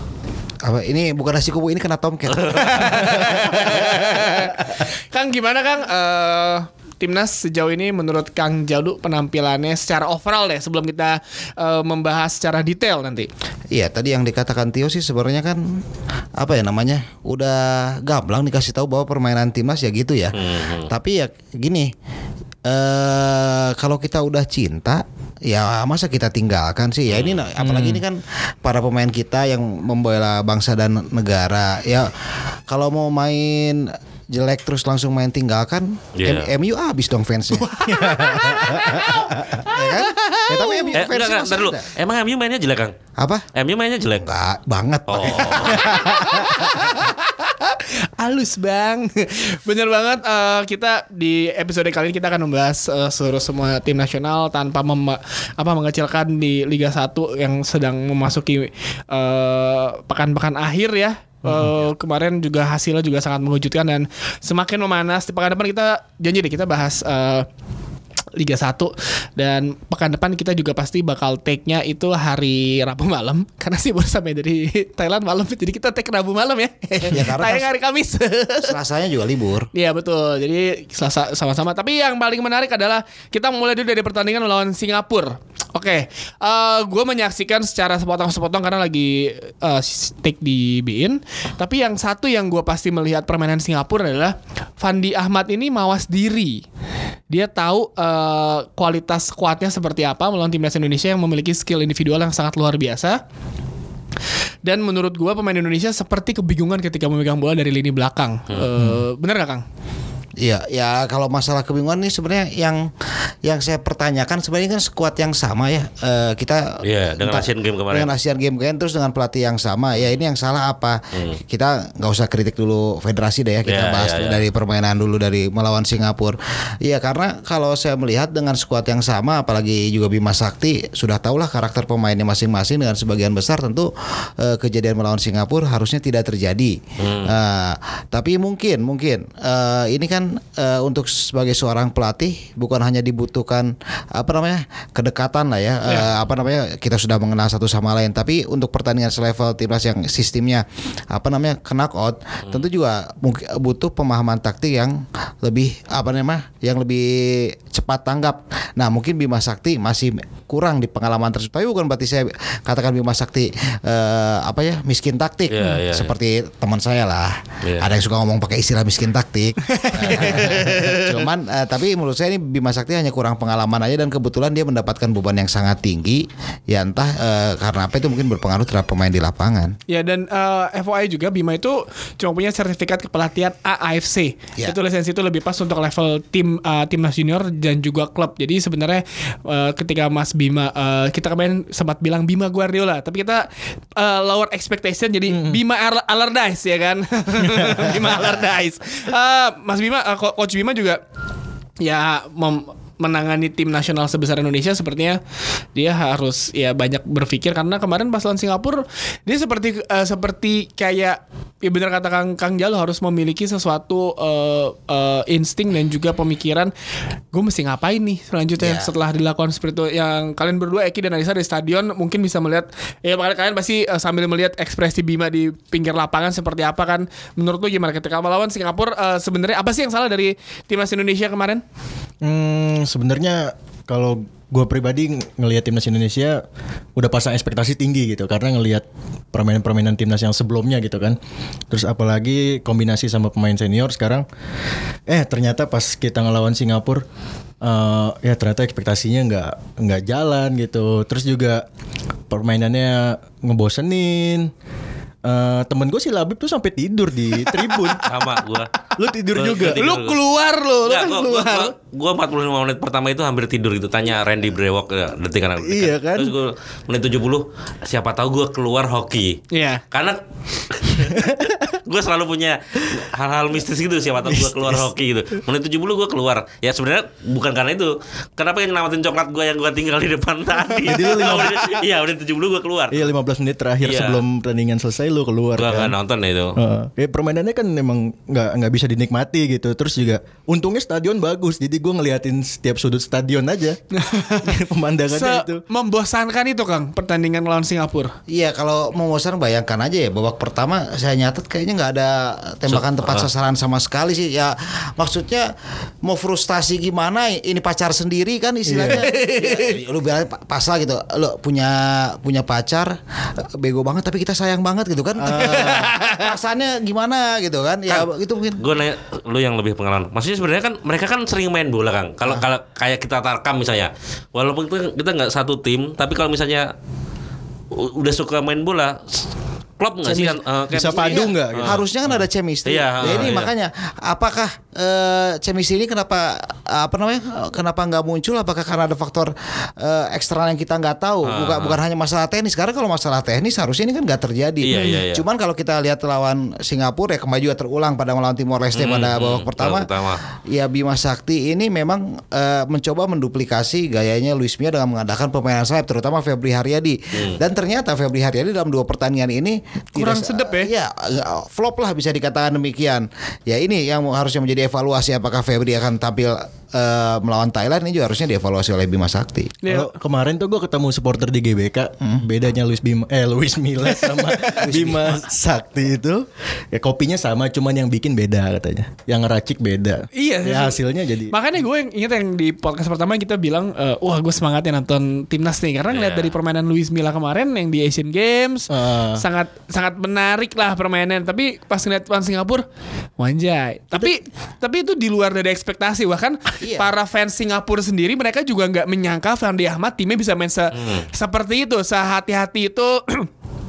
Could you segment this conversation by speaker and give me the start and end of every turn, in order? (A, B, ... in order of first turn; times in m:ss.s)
0:00.6-0:04.5 A
0:02.3-0:03.2 B
0:02.6-0:13.3 C
0:13.7-0:15.8 A
0:16.4-0:21.9 A
0:20.3-0:20.9 B
0:22.7-0:32.1 A
0:27.1-0:28.0 B
0:32.7-0:37.8 A
0:36.2-0:36.5 B
0:37.6-0:41.0 C
0:37.9-0:38.8 D
0:38.8-0:41.8 A
0:40.9-0:42.9 B
0:43.2-0:43.4 A
0:43.5-0:44.2 B
0:44.1-0:47.0 A
0:45.1-0:46.1 B
0:45.8-1:07.4 C
1:01.4-1:01.7 D
1:08.4-1:18.7 C
1:17.0-1:17.7 A
1:18.6-1:19.7 A
1:19.7-1:36.6 C
1:37.3-1:43.2 C
1:44.6-1:49.6 C
1:50.4-1:52.9 A
1:53.4-2:59.8 A
1:56.8-1:58.1 B
2:03.6-2:04.4 B
2:17.0-2:17.3 B
2:45.5-2:46.1 B
2:49.6-2:51.2 C
2:59.9-3:21.0 C
3:15.3-3:15.6 D
3:17.4-3:18.3 D
3:21.8-3:25.2 C
3:25.7-3:36.7 C
3:37.3-3:51.6 C
3:38.6-3:38.9 A
3:52.2-3:56.4 D
3:57.0-4:01.2 D
4:01.7-4:04.2 D
4:05.1-4:07.0 D
4:07.6-4:11.6 D
4:12.3-4:14.5 D
4:15.2-4:18.0 D
4:17.4-4:18.2 C
4:18.0-4:18.7 B
4:19.0-4:19.8 D
4:19.3-4:20.2 B
4:19.8-4:21.7 C
4:20.8-4:43.1 B
4:25.6-4:26.3 D
4:29.5-4:29.8 C
4:31.2-4:31.7 D
4:34.2-4:34.8 D
4:40.8-4:41.7 D
4:42.9-4:45.9 D
4:43.8-4:44.2 B
4:45.5-4:46.6 B
4:46.6-4:53.8 D
4:53.9-4:54.5 C
4:54.4-4:55.6 D
4:55.1-4:58.1 C
4:58.3-5:05.5 A
5:02.7-5:03.3 B
5:06.0-5:12.9 A
5:08.6-5:09.1 D
5:08.8-5:09.8 C
5:13.6-5:18.6 A
5:15.2-5:15.8 D
5:15.3-5:16.3 C
5:17.9-5:26.7 B
5:27.7-5:29.3 B
5:29.8-5:31.8 B
5:30.3-5:31.8 D
5:30.9-5:49.9 A
5:32.6-5:33.5 B
5:33.1-5:33.3 D
5:41.2-5:41.8 B
5:44.6-5:45.2 B
5:44.7-5:45.0 C
5:48.7-5:50.2 B
5:50.4-6:09.6 A
6:00.0-6:00.7 C
6:09.6-6:09.9 C
6:09.6-6:21.3 D
6:13.8-6:15.0 C
6:20.1-6:32.6 C
6:25.9-6:26.3 B
6:28.7-6:29.2 D
6:33.2-6:43.3 C
6:36.6-6:36.9 A
6:40.7-6:41.1 B